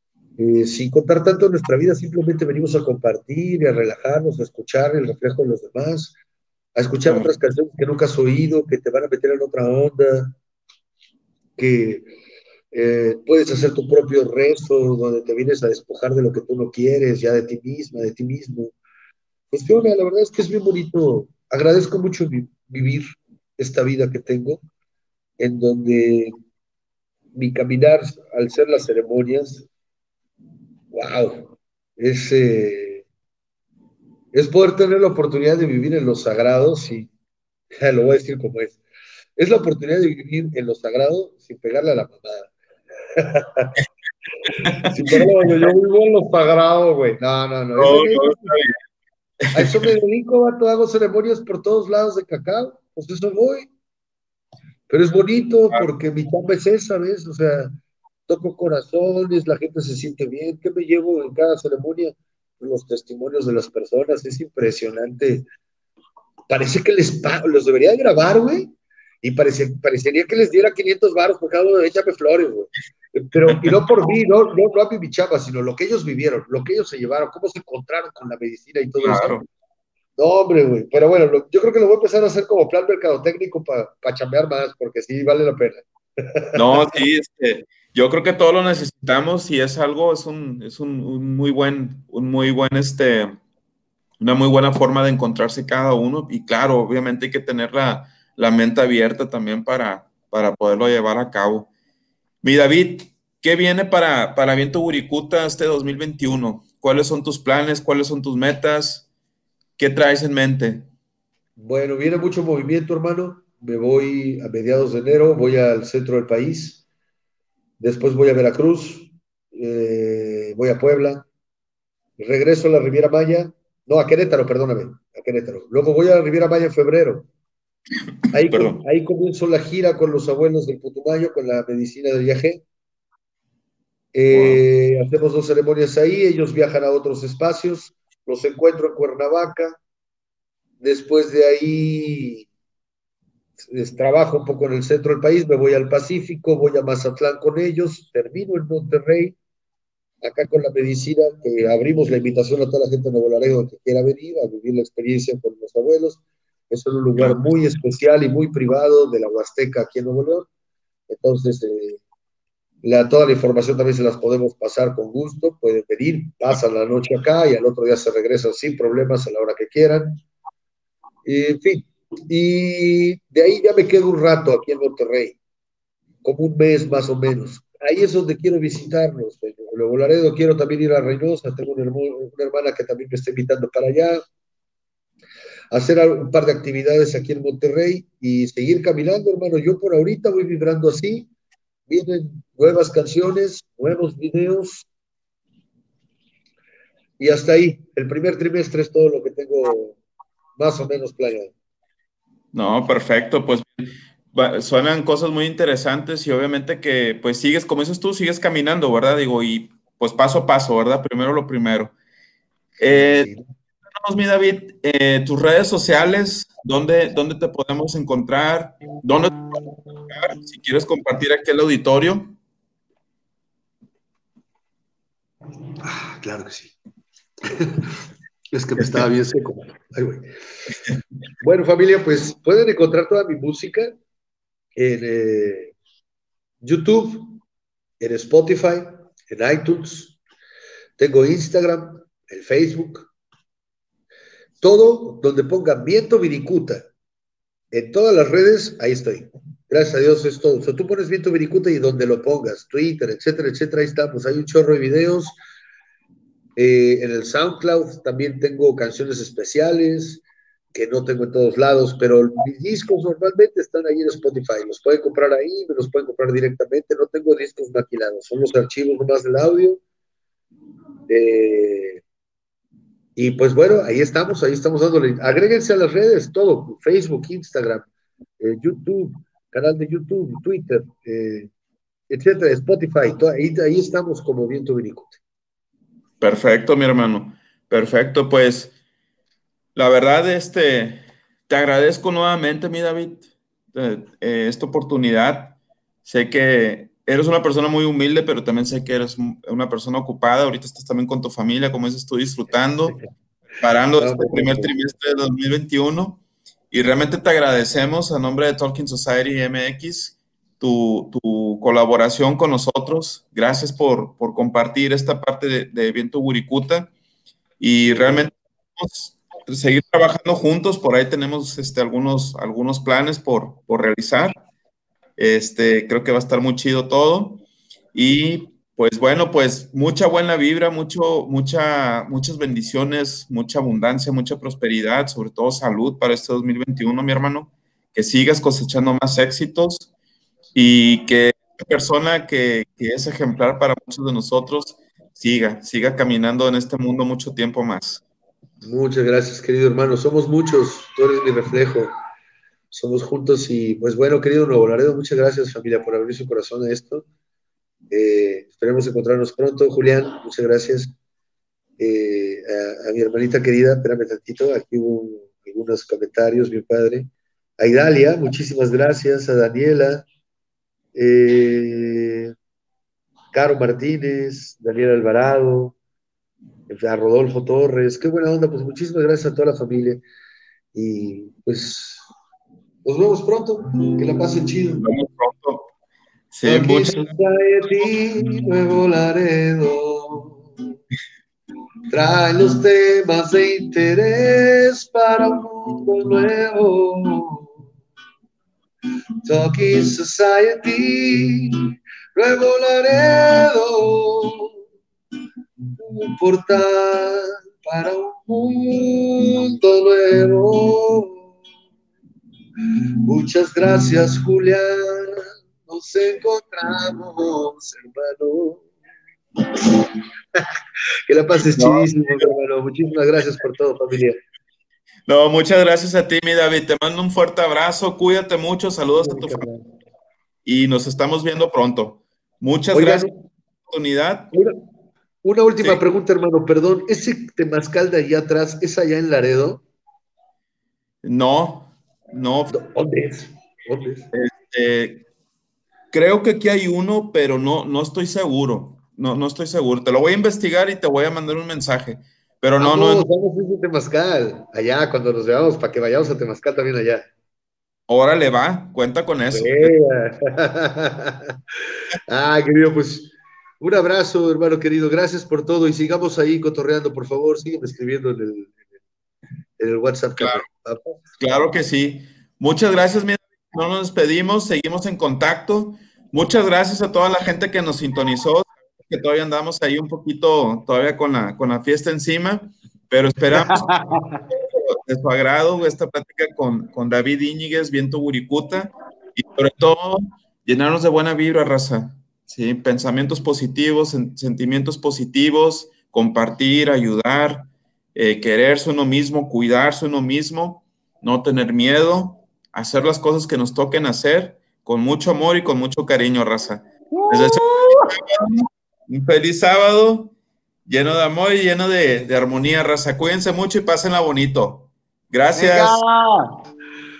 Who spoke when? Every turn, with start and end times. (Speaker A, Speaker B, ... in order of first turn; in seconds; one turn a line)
Speaker A: 0.4-6.1
Speaker A: 6.8-10.4
Speaker B: 7.0-7.3
Speaker A: 11.6-12.1
Speaker A: 12.7-18.7
Speaker A: 19.5-24.6
Speaker A: 25.4-26.3
Speaker A: 27.3-29.6
Speaker A: 30.9-33.0
Speaker A: 34.3-37.1
Speaker A: 37.8-38.8
Speaker A: 39.4-42.5
Speaker A: 43.1-43.8
Speaker B: 44.6-45.2
Speaker A: 44.8-48.5
Speaker B: 47.8-48.8
Speaker B: 49.5-49.8
Speaker A: 49.5-53.7
Speaker A: 54.9-57.7
Speaker A: 58.3-65.4
Speaker A: 66.5-79.4
Speaker B: 73.5-73.7
Speaker B: 79.0-79.4
Speaker A: 80.2-86.9
Speaker B: 86.5-93.4
Speaker B: 94.2-101.7
Speaker B: 102.4-109.0
Speaker B: 109.8-110.9
Speaker A: 111.6-116.8
Speaker A: 117.8-121.3
Speaker A: 122.2-127.3
Speaker A: 128.3-132.6
Speaker B: 128.5-128.8
Speaker A: 134.1-139.8
Speaker B: 134.3-134.6
Speaker A: 140.8-142.5
Speaker A: 143.6-149.3
Speaker A: 150.2-160.5
Speaker B: 157.2-157.5
Speaker A: 161.1-162.0
Speaker A: 162.8-170.2
Speaker A: 171.2-175.4
Speaker A: 176.2-184.2
Speaker A: 185.7-191.3
Speaker A: 191.9-194.9
Speaker A: 197.2-200.0
Speaker A: 200.6-201.5
Speaker B: 202.5-211.9
Speaker B: 212.8-213.3
Speaker A: 212.8-213.4
Speaker B: 213.9-219.4
Speaker B: 220.1-222.4
Speaker A: 225.8-226.7
Speaker A: 227.4-227.9
Speaker A: 228.5-230.3
Speaker A: 231.4-233.9
Speaker A: 234.8-235.7
Speaker A: 236.6-237.4
Speaker A: 238.0-240.2
Speaker A: 241.0-243.1
Speaker A: 244.6-246.8
Speaker A: 247.7-255.3
Speaker A: 256.6-269.8
Speaker A: 271.1-272.0
Speaker A: 273.1-277.9
Speaker A: 278.4-281.5
Speaker A: 282.1-285.2
Speaker B: 286.2-288.7
Speaker B: 289.7-302.9
Speaker B: 303.6-316.9
Speaker A: 304.0-304.7
Speaker B: 317.6-324.4
Speaker A: 317.9-318.3
Speaker B: 325.2-327.4
Speaker B: 327.9-339.9
Speaker B: 340.5-348.0
Speaker A: 348.6-351.9
Speaker A: 352.7-357.0
Speaker A: 357.9-360.9
Speaker A: 361.8-370.1
Speaker A: 370.9-372.3
Speaker A: 373.3-375.8
Speaker A: 376.7-380.0
Speaker A: 380.7-382.0
Speaker A: 382.8-384.8
Speaker B: 384.8-385.7
Speaker B: 386.3-387.1
Speaker A: 386.4-390.5
Speaker A: 391.9-397.5
Speaker A: 399.2-404.5
Speaker A: 405.8-411.3
Speaker A: 413.1-418.7
Speaker A: 419.6-420.4
Speaker A: 421.1-424.2
Speaker B: 421.6-422.3
Speaker B: 425.1-429.5
Speaker A: 428.9-429.6
Speaker B: 430.4-433.1
Speaker A: 432.7-433.2
Speaker B: 433.7-434.3
Speaker A: 434.3-434.6
Speaker A: 435.2-439.6
Speaker B: 441.0-442.5
Speaker A: 442.5-444.1
Speaker B: 444.1-445.0
Speaker B: 445.9-453.1
Speaker A: 452.6-457.0
Speaker B: 457.9-459.7
Speaker A: 459.3-461.4
Speaker A: 462.1-468.6
Speaker A: 469.6-471.0
Speaker B: 470.2-470.4
Speaker B: 471.2-483.6
Speaker A: 483.3-484.2
Speaker B: 484.5-510.1
Speaker A: 506.9-507.9
Speaker B: 510.6-515.8
Speaker A: 515.3-516.3